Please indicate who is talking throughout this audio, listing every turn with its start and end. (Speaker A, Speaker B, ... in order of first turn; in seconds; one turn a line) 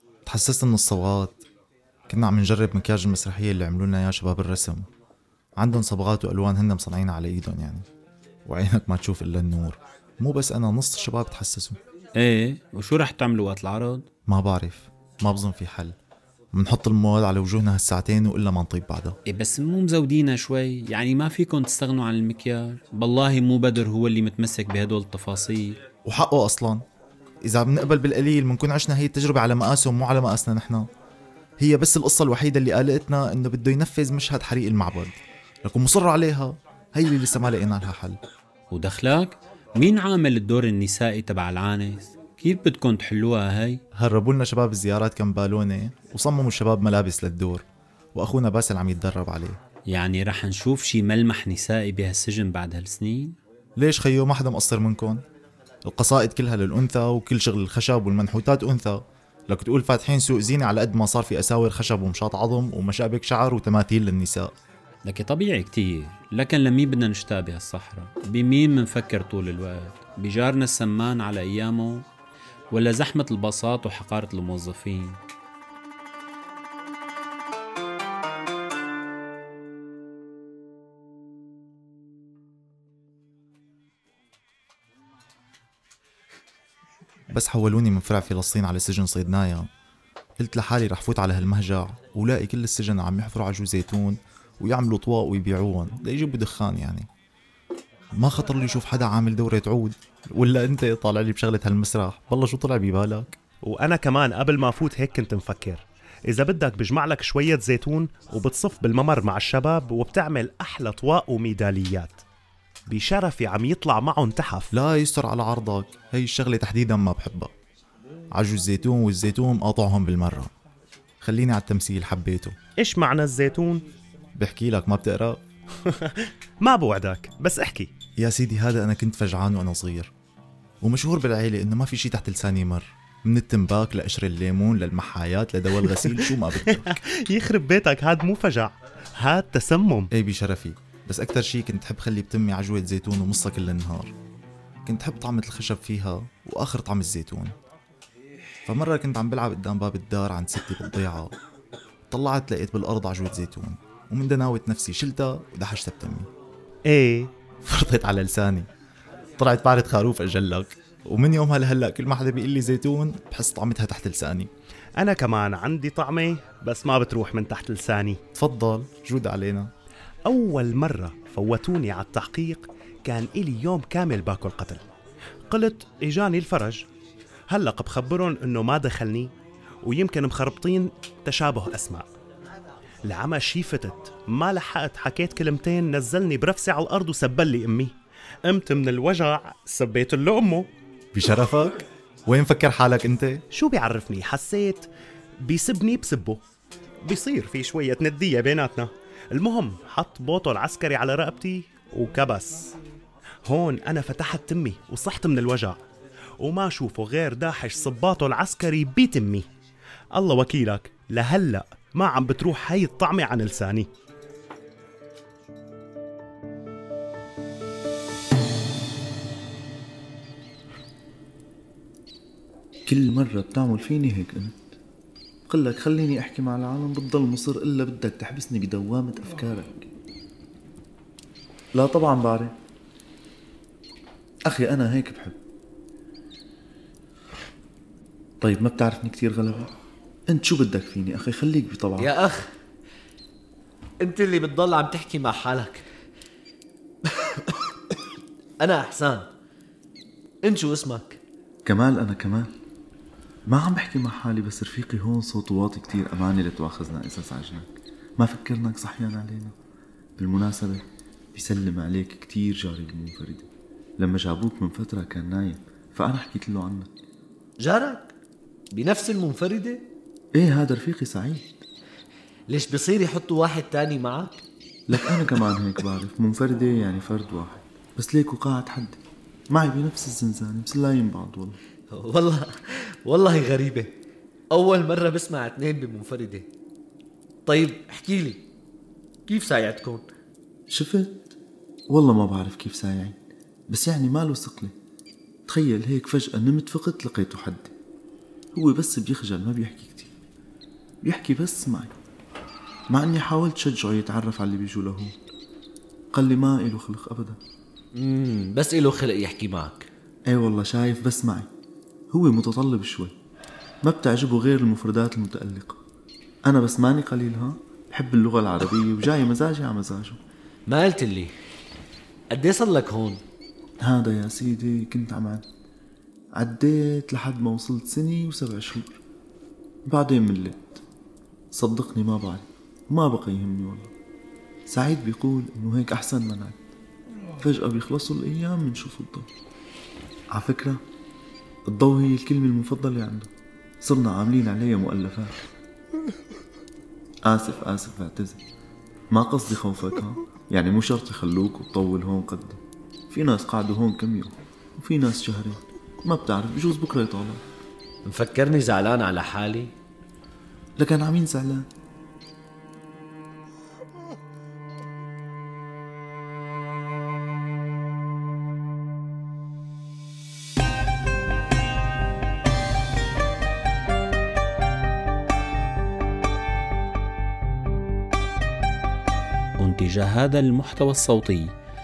Speaker A: 0.3-1.4
Speaker A: 2.1-4.9
Speaker A: 5.6-7.8
Speaker A: 8.5-11.8
Speaker B: 12.2-14.1
Speaker A: 14.3-15.9
Speaker A: 16.5-19.2
Speaker B: 19.3-25.8
Speaker A: 26.1-26.8
Speaker A: 27.4-30.8
Speaker A: 31.6-38.2
Speaker B: 38.7-43.8
Speaker A: 43.9-47.6
Speaker A: 48.1-49.6
Speaker B: 49.9-53.4
Speaker A: 53.8-55.2
Speaker A: 55.9-64.5
Speaker B: 65.0-72.0
Speaker B: 72.7-75.2
Speaker A: 87.3-89.7
Speaker A: 90.4-97.1
Speaker A: 98.2-103.3
Speaker C: 103.6-112.2
Speaker C: 112.9-114.7
Speaker A: 114.7-117.5
Speaker A: 118.3-120.5
Speaker A: 121.2-122.6
Speaker C: 122.8-123.8
Speaker A: 124.4-125.4
Speaker C: 126.1-127.9
Speaker A: 128.2-130.1
Speaker A: 130.8-137.0
Speaker C: 136.0-140.1
Speaker A: 140.1-144.1
Speaker A: 144.8-147.5
Speaker A: 148.7-151.3
Speaker A: 152.1-156.3
Speaker C: 156.9-157.3
Speaker A: 157.6-158.7
Speaker A: 159.4-164.5
Speaker C: 165.0-168.2
Speaker A: 168.3-169.7
Speaker C: 170.2-174.8
Speaker C: 175.5-176.8
Speaker C: 177.5-179.3
Speaker C: 179.8-182.1
Speaker C: 183.1-187.9
Speaker C: 188.5-190.7
Speaker A: 191.1-193.4
Speaker C: 193.5-194.9
Speaker C: 195.4-196.4
Speaker C: 197.0-202.7
Speaker C: 203.5-205.8
Speaker C: 206.4-209.5
Speaker C: 210.2-213.9
Speaker D: 222.9-224.8
Speaker D: 225.5-229.9
Speaker D: 231.8-232.5
Speaker D: 234.5-235.4
Speaker D: 238.4-239.7
Speaker D: 240.3-242.2
Speaker E: 242.0-242.5
Speaker E: 244.0-245.9
Speaker E: 247.1-247.5
Speaker E: 248.6-249.3
Speaker E: 250.4-251.2
Speaker D: 251.6-252.5
Speaker D: 253.5-259.5
Speaker D: 260.2-263.5
Speaker D: 264.0-266.9
Speaker E: 267.6-268.1
Speaker E: 268.7-269.9
Speaker D: 270.3-271.6
Speaker E: 272.5-274.4
Speaker D: 274.9-279.0
Speaker D: 279.5-281.6
Speaker E: 281.9-284.0
Speaker E: 284.5-286.5
Speaker E: 287.5-288.5
Speaker E: 289.3-290.1
Speaker D: 290.7-291.4
Speaker D: 291.9-293.2
Speaker D: 293.7-294.7
Speaker D: 295.5-297.7
Speaker D: 298.5-300.1
Speaker D: 301.0-301.9
Speaker D: 302.9-305.1
Speaker D: 306.1-307.4
Speaker E: 307.9-309.9
Speaker D: 310.3-311.5
Speaker D: 312.1-313.1
Speaker D: 313.8-315.8
Speaker D: 316.5-320.2
Speaker E: 320.7-321.4
Speaker E: 322.3-323.2
Speaker D: 323.8-325.4
Speaker D: 326.4-329.0
Speaker D: 329.9-330.8
Speaker D: 331.5-333.9
Speaker D: 334.7-336.6
Speaker D: 337.4-339.3
Speaker D: 340.3-340.8
Speaker D: 341.7-343.3
Speaker D: 343.8-345.3
Speaker D: 347.3-348.4
Speaker D: 349.1-352.6
Speaker D: 353.1-357.4
Speaker E: 358.0-359.7
Speaker D: 360.8-361.6
Speaker B: 379.6-381.5